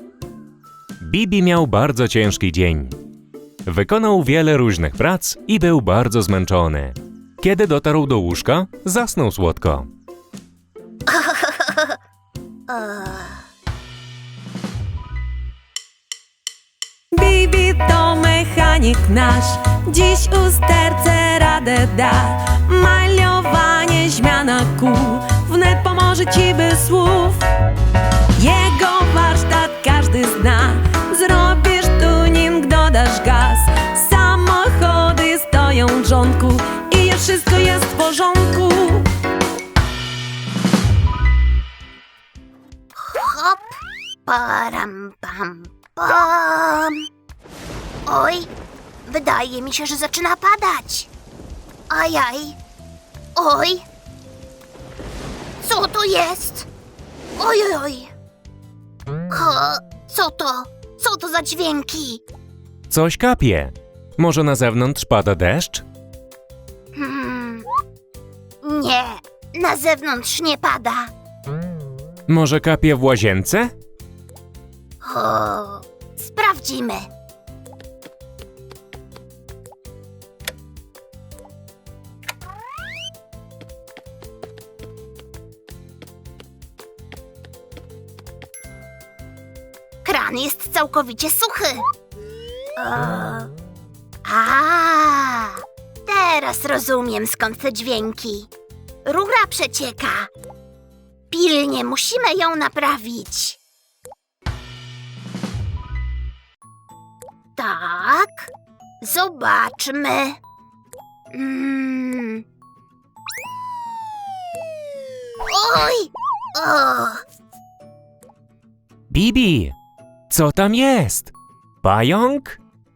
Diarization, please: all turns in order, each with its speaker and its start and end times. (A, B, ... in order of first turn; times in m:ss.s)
0:01.0-0:03.0 A
0:03.6-0:09.9 A
0:11.1-0:12.0 B
0:12.7-0:13.4 B
0:17.1-0:27.5 C
0:28.4-0:39.1 C
0:42.9-0:47.1 B
0:48.0-0:48.5 B
0:49.0-0:51.1 B
0:51.9-0:52.6 B
0:53.3-0:53.8 B
0:55.6-0:56.7 B
0:57.4-0:58.1 B
0:59.3-1:02.2 B
1:02.9-1:05.8 A
1:06.9-1:07.7 B
1:08.6-1:11.1 B
1:12.3-1:13.7 A
1:15.0-1:17.1 B
1:30.0-1:31.8 B
1:32.8-1:33.5 B
1:34.2-1:38.5 B
1:39.0-1:40.3 B
1:41.3-1:43.6 B
1:47.6-1:48.5 B
1:49.0-1:50.4 B
1:51.3-1:52.4 B
1:55.5-1:57.2 B
1:59.1-1:59.7 A
2:00.3-2:02.6 A